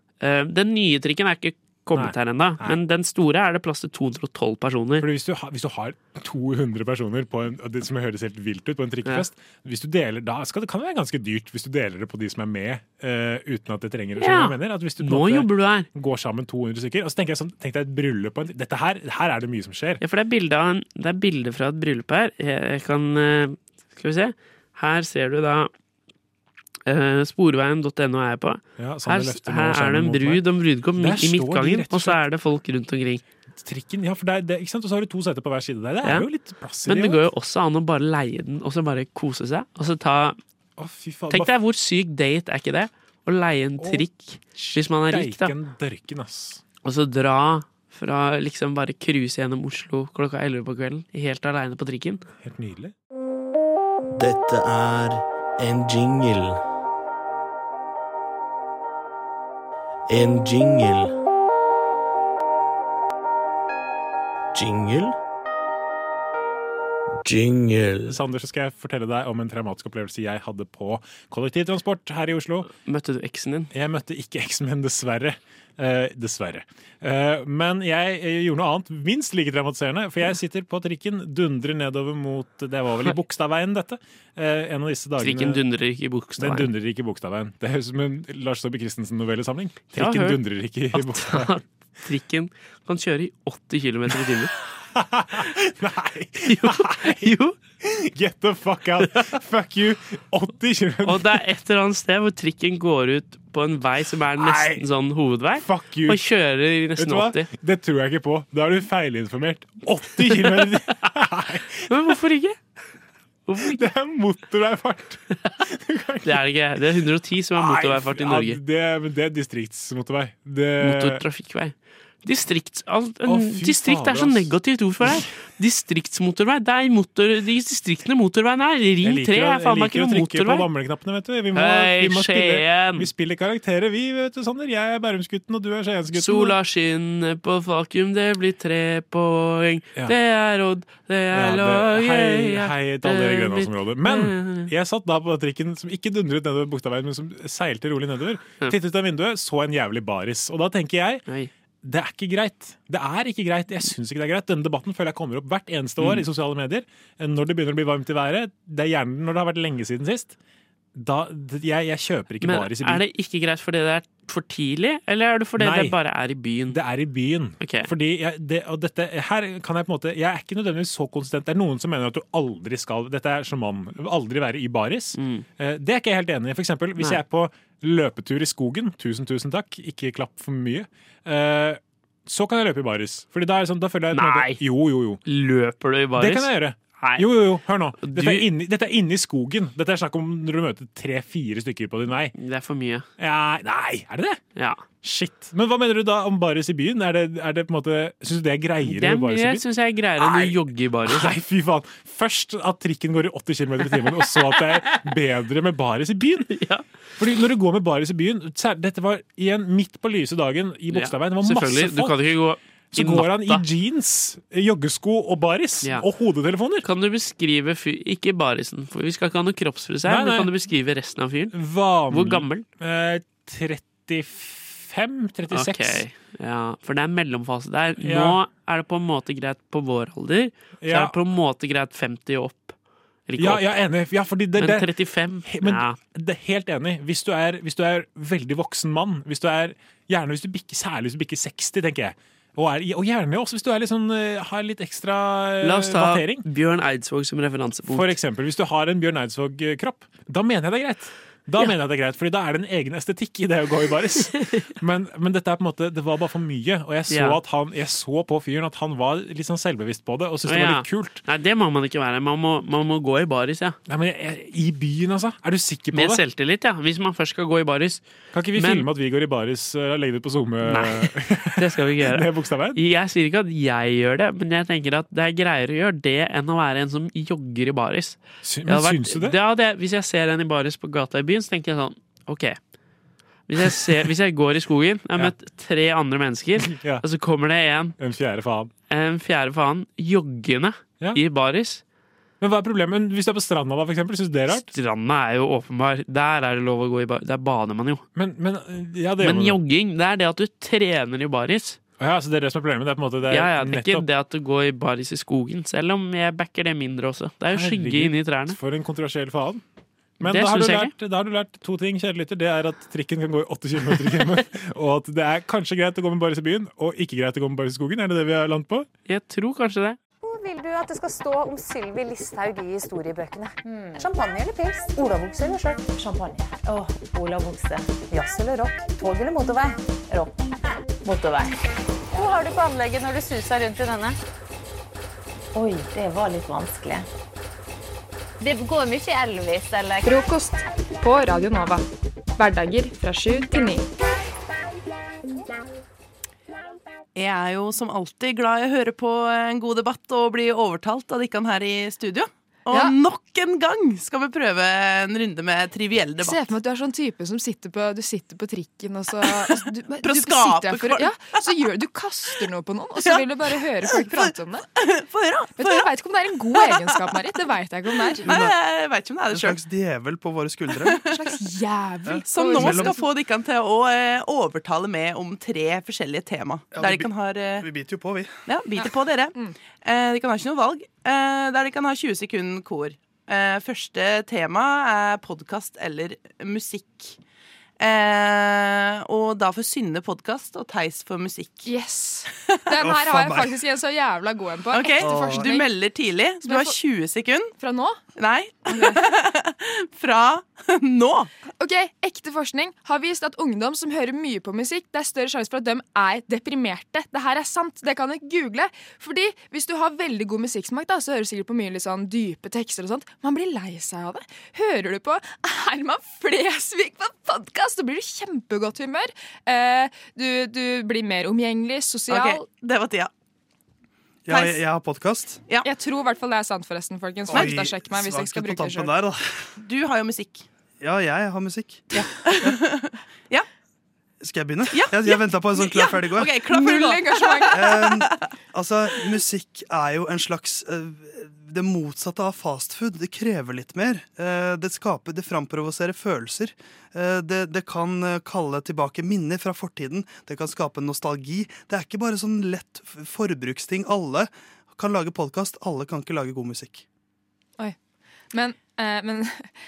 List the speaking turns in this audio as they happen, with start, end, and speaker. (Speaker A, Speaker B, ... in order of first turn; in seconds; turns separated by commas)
Speaker A: 0.2-5.0, Speaker B: 1.9-2.8, Speaker B: 5.0-20.0, Speaker A: 14.2-15.9, Speaker A: 20.0-25.7, Speaker A: 26.9-33.2, Speaker B: 28.8-32.2, Speaker B: 33.5-37.2, Speaker A: 36.0-36.3, Speaker A: 36.8-40.4, Speaker B: 40.8-41.5, Speaker A: 41.3-45.5, Speaker B: 43.8-46.6, Speaker A: 46.8-52.2, Speaker B: 52.4-52.9, Speaker C: 54.1-56.6, Speaker C: 60.1-61.1, Speaker C: 64.5-65.1, Speaker C: 67.2-68.2, Speaker B: 68.1-72.7, Speaker A: 72.8-73.7, Speaker B: 73.7-85.7, Speaker A: 85.2-86.7, Speaker B: 86.4-91.5, Speaker A: 89.9-90.4, Speaker A: 90.9-94.5, Speaker B: 94.1-101.3, Speaker A: 96.5-97.5, Speaker A: 101.0-107.5, Speaker B: 104.3-104.9, Speaker B: 105.5-106.3, Speaker B: 106.9-112.0, Speaker A: 111.9-112.6, Speaker A: 113.5-113.8, Speaker B: 113.6-116.9, Speaker A: 116.2-118.6, Speaker B: 117.5-121.2, Speaker A: 120.8-130.7, Speaker B: 123.3-125.3, Speaker B: 129.0-136.6, Speaker A: 131.5-133.1, Speaker A: 136.1-144.7, Speaker B: 141.3-151.2, Speaker B: 151.8-160.4, Speaker B: 160.9-163.0, Speaker A: 162.4-166.8, Speaker B: 165.6-166.0, Speaker B: 166.7-185.2, Speaker A: 167.6-167.9, Speaker A: 175.2-175.4, Speaker A: 184.1-184.6, Speaker A: 185.2-187.3, Speaker B: 186.1-192.3, Speaker A: 187.9-188.4, Speaker A: 192.3-193.1, Speaker B: 193.2-194.4, Speaker A: 194.6-194.8, Speaker B: 195.0-199.6, Speaker A: 198.8-201.3, Speaker B: 200.2-206.5, Speaker A: 206.5-206.8, Speaker B: 207.2-212.3, Speaker A: 210.9-213.6, Speaker B: 212.9-216.9, Speaker A: 216.8-221.5, Speaker B: 220.1-220.6, Speaker B: 221.5-226.0, Speaker A: 222.1-222.7, Speaker A: 225.5-232.7, Speaker B: 228.0-228.4, Speaker B: 230.8-231.2, Speaker A: 233.3-233.8, Speaker B: 233.4-246.4, Speaker A: 234.6-236.0, Speaker A: 245.6-248.2, Speaker B: 247.9-261.2, Speaker A: 257.1-257.4, Speaker A: 260.5-263.8, Speaker B: 263.9-266.2, Speaker A: 265.9-268.1, Speaker B: 268.3-272.8, Speaker A: 268.6-268.9, Speaker A: 270.7-282.6, Speaker B: 278.4-279.4, Speaker A: 283.5-287.9, Speaker B: 286.6-287.1, Speaker B: 288.0-288.7, Speaker A: 288.9-291.8, Speaker B: 292.4-294.7, Speaker A: 294.5-298.1, Speaker B: 298.1-299.6, Speaker A: 299.2-301.8, Speaker B: 302.0-304.1, Speaker A: 303.3-308.6, Speaker B: 307.5-309.6, Speaker B: 310.2-318.9, Speaker A: 310.2-310.9, Speaker A: 319.1-320.0, Speaker D: 320.3-330.3, Speaker D: 331.1-331.5, Speaker D: 332.1-334.2, Speaker D: 335.6-337.0, Speaker D: 338.4-340.1, Speaker E: 340.1-341.8, Speaker E: 342.4-343.9, Speaker F: 347.1-356.4, Speaker E: 356.2-364.6, Speaker F: 359.2-361.7, Speaker F: 363.0-367.3, Speaker E: 365.6-368.2, Speaker F: 368.1-369.6, Speaker G: 368.2-368.6, Speaker G: 369.3-371.0, Speaker F: 370.8-371.3, Speaker E: 371.1-373.1, Speaker G: 372.1-373.0, Speaker F: 372.2-377.7, Speaker G: 376.7-378.4, Speaker F: 378.5-387.2, Speaker E: 378.8-379.5, Speaker F: 387.8-391.7, Speaker E: 391.6-395.7, Speaker G: 392.8-393.6, Speaker F: 394.7-397.5, Speaker G: 394.9-395.6, Speaker E: 396.4-396.8, Speaker E: 397.6-398.0, Speaker F: 398.2-401.3, Speaker E: 398.7-399.0, Speaker E: 401.6-422.4, Speaker F: 422.1-423.1, Speaker G: 424.3-425.4, Speaker F: 424.3-424.6, Speaker E: 425.6-428.9, Speaker F: 427.3-427.6, Speaker G: 427.3-429.5, Speaker F: 429.6-430.5, Speaker G: 430.8-432.6, Speaker F: 431.9-433.5, Speaker G: 434.2-436.4, Speaker F: 434.7-438.3, Speaker E: 436.5-437.6, Speaker G: 437.5-456.8, Speaker E: 458.3-459.6